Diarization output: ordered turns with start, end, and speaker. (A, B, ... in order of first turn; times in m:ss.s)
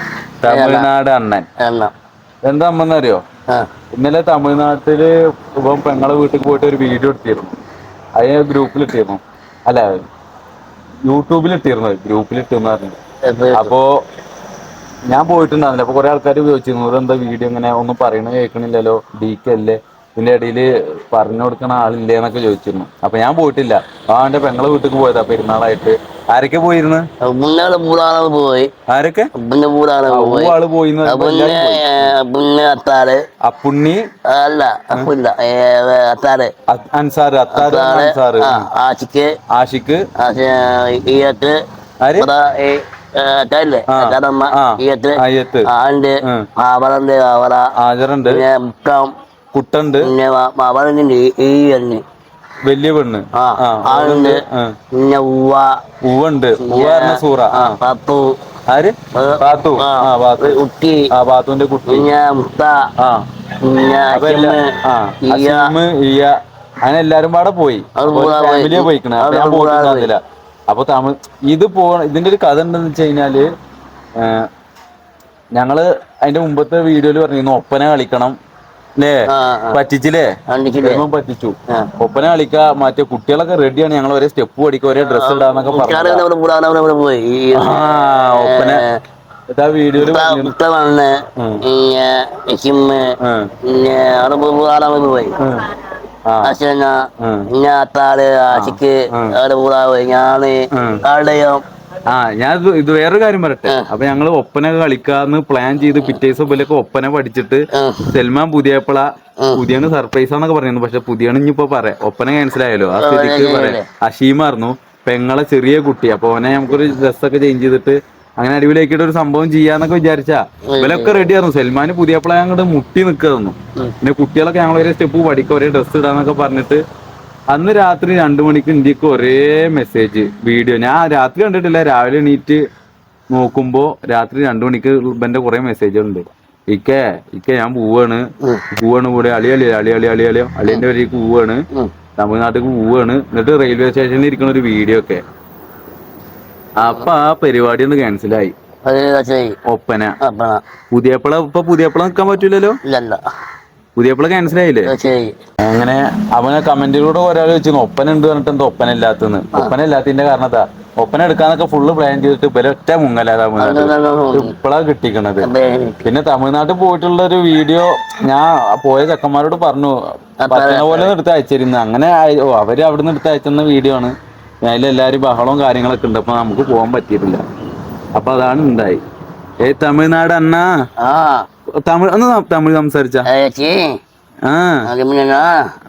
0:00.4-0:01.4 A
0:00.5-0:00.9 B
0:01.6-0:01.9 B
0:02.4-0:03.2 A
0:04.0-0:07.6 A
0:08.2-0:10.0 A
0:11.1-0:13.0 A
0:13.2-0:13.7 B
0:13.5-0:13.9 A
0:15.1-0:27.0 A
0:27.2-0:28.7 B
0:28.9-0:29.3 A
0:29.4-0:30.6 B
0:30.1-0:32.1 A
0:31.1-0:33.2 B
0:33.4-0:34.1 A
0:34.2-0:36.5 B
0:36.7-0:38.6 A
0:37.5-0:39.3 B
0:39.5-0:40.0 A
0:40.2-0:41.6 B
0:42.0-0:42.3 A
0:42.2-0:47.7 B
0:43.9-0:45.7 A
0:47.8-0:48.4 A
0:48.3-0:49.1 B
0:49.5-0:50.1 A
0:50.0-0:52.0 B
0:52.6-0:54.8 A
0:53.4-0:54.4 B
0:54.9-0:55.8 B
0:56.0-0:57.8 A
0:56.6-0:58.4 B
0:58.7-1:00.6 A
0:59.1-1:01.1 B
1:01.1-1:02.1 A
1:01.9-1:02.8 B
1:03.0-1:03.2 A
1:03.6-1:05.7 B
1:04.1-1:13.5 A
1:08.0-1:10.1 B
1:14.2-1:14.5 A
1:15.6-1:18.4 A
1:19.0-1:20.3 A
1:19.3-1:19.8 B
1:20.5-1:21.0 B
1:20.8-1:26.2 A
1:25.0-1:29.0 B
1:27.5-1:28.8 A
1:29.5-1:30.5 A
1:30.0-1:35.4 B
1:31.4-1:31.6 A
1:33.2-1:33.5 A
1:35.4-1:35.7 A
1:36.3-1:36.6 A
1:36.4-1:41.6 B
1:37.2-1:37.5 A
1:38.5-1:39.4 A
1:40.7-1:41.0 A
1:42.1-2:06.8 A
1:47.7-1:48.1 B
1:53.0-1:53.9 B
2:00.7-2:01.2 B
2:07.5-2:12.6 A
2:13.3-2:21.6 A
2:22.2-2:25.2 A
2:26.8-2:28.5 A
2:28.8-2:29.6 B
2:29.7-2:30.2 A
2:30.2-2:30.6 B
2:30.9-2:32.8 A
2:32.8-2:33.2 B
2:34.0-2:34.9 A
2:34.8-2:35.4 B
2:35.6-2:45.5 A
2:43.6-2:44.5 B
2:45.4-2:46.0 B
2:46.0-2:50.0 A
2:50.4-2:51.1 B
2:50.5-2:57.4 A
2:58.2-2:59.0 A
2:59.6-3:00.8 A
3:01.0-3:01.5 B
3:01.8-3:03.3 A
3:03.3-3:04.0 B
3:04.5-3:04.9 A
3:04.9-3:05.7 B